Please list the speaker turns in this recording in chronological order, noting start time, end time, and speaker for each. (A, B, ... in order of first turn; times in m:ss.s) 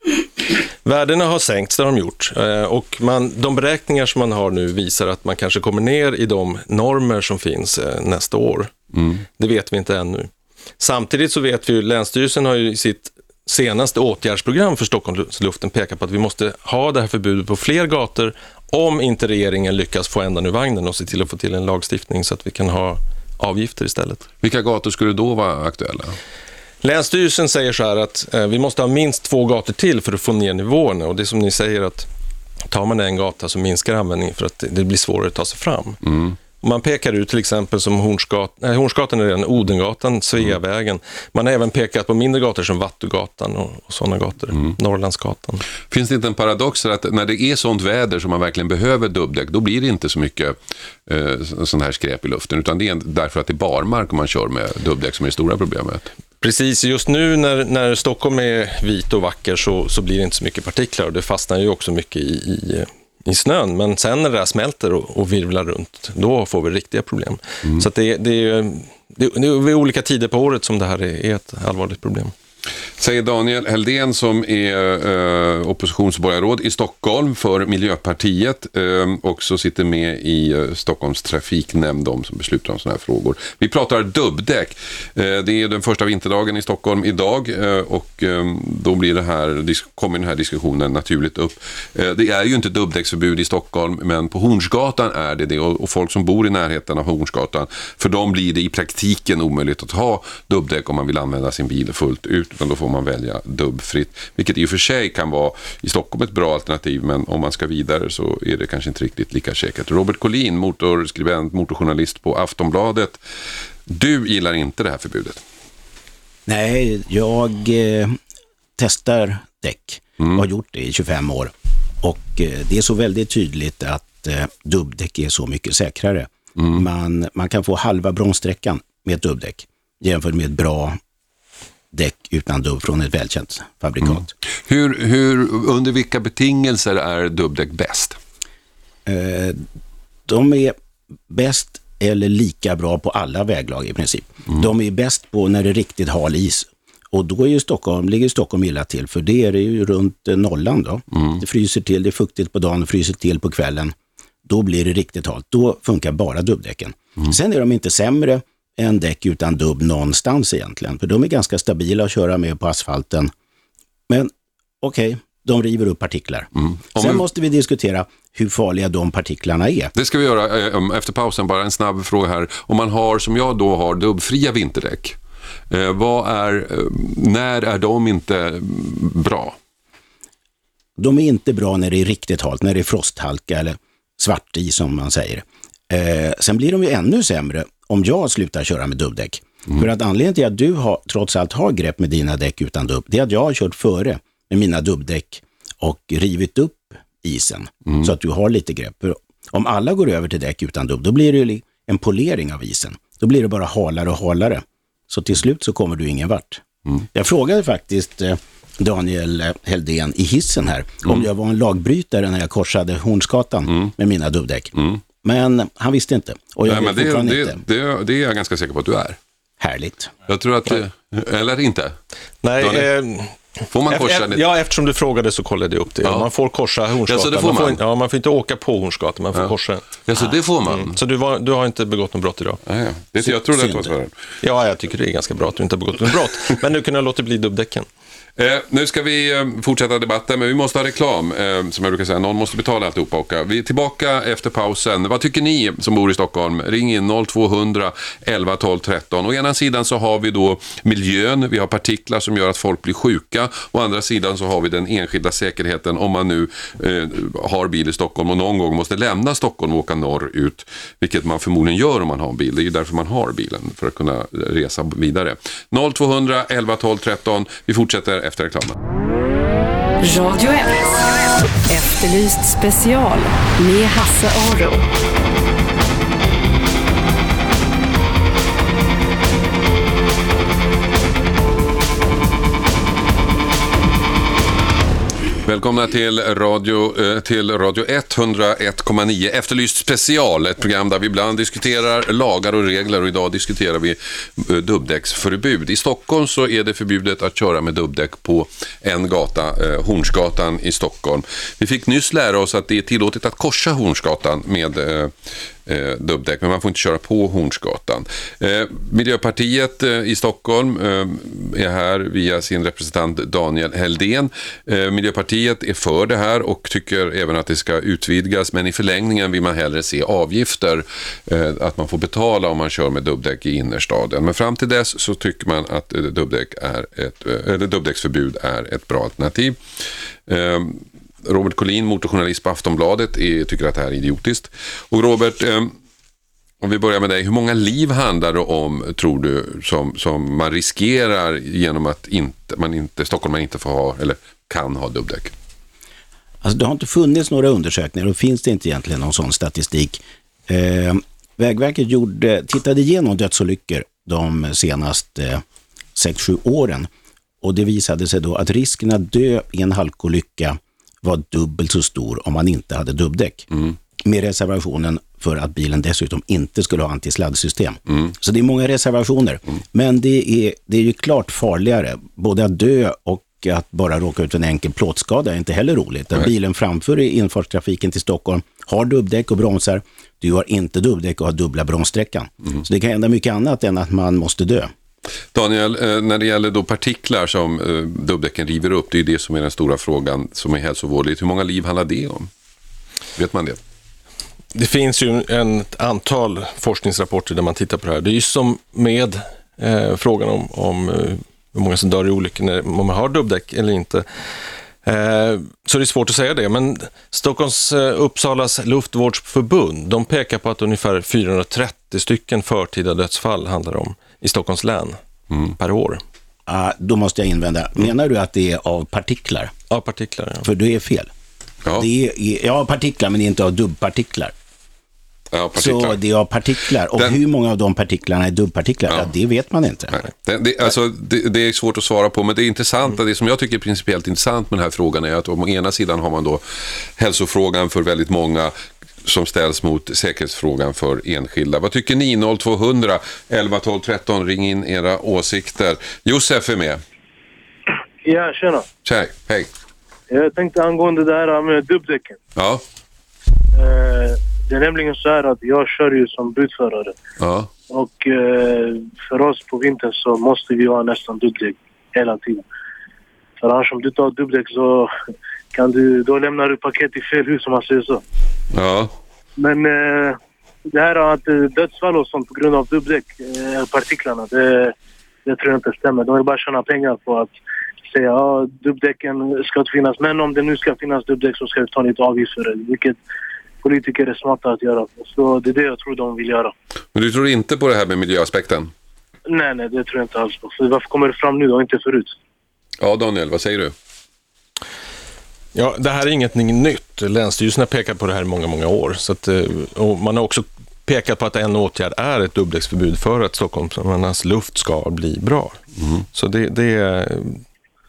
0:00.8-0:08.7 A
0:08.9-0:09.2 B
0:09.4-0:24.2 A
0:24.4-0:26.2 B
0:26.8-0:32.1 A
0:32.7-0:36.0 A
0:36.0-0:36.4 B
0:36.6-0:45.6 A
0:45.9-0:56.1 B
0:56.4-1:12.3 A
1:13.0-1:53.2 B
1:53.9-1:55.4 B
1:56.5-1:58.2 C
1:58.8-2:11.0 C
2:11.9-2:14.3 C
2:14.6-2:18.2 B
2:19.0-2:19.6 C
2:20.3-2:20.8 C
2:21.3-2:33.9 C
2:31.1-2:31.4 B
2:34.4-2:43.3 C
2:44.1-2:49.9 C
2:46.6-2:47.2 B
2:49.9-2:55.2 B
2:55.7-2:59.6 B
3:01.0-3:37.6 C
3:36.6-3:39.2 B
3:39.6-3:40.1 C
3:40.3-3:42.0 B
3:42.4-3:43.4 A
3:42.6-3:42.9 B
3:43.7-3:44.4 B
3:43.9-3:49.9 A
3:47.1-3:47.8 B
3:49.3-3:51.0 B
3:50.7-3:52.6 A
3:52.6-3:54.1 B
3:53.2-3:53.9 C
3:54.4-3:57.9 A
3:58.4-4:28.8 B
4:30.0-4:34.9 D
4:45.4-5:05.1 B
5:05.6-5:29.6 B
5:30.3-5:35.7 B
5:36.6-5:45.3 B
5:46.4-5:55.4 C
5:56.0-5:56.9 C
5:57.4-6:24.7 C
6:25.3-6:32.3 B
6:33.2-6:33.6 B
6:34.5-6:44.0 A
6:44.8-6:55.0 A
6:55.6-6:56.0 A
6:56.5-6:59.5 C
6:59.7-7:00.5 A
7:00.4-7:01.1 C
7:01.8-7:04.3 C
7:05.3-7:06.0 B
7:05.6-7:10.0 C
7:09.9-7:26.8 B
7:28.0-7:28.7 E
7:28.8-7:29.5 B
7:30.1-7:32.2 E
7:32.4-7:32.6 B
7:33.5-7:37.0 E
7:37.2-7:37.5 B
7:37.7-7:42.4 E
7:43.4-7:44.9 E
7:45.5-7:48.0 E
7:48.5-7:48.9 B
7:49.4-7:50.2 E
7:50.7-7:57.3 E
7:57.9-8:03.0 E
8:03.6-8:06.5 E
8:06.9-8:08.7 B
8:09.3-8:12.2 E
8:12.8-8:13.7 B
8:15.5-8:25.6 A
8:26.1-8:27.4 A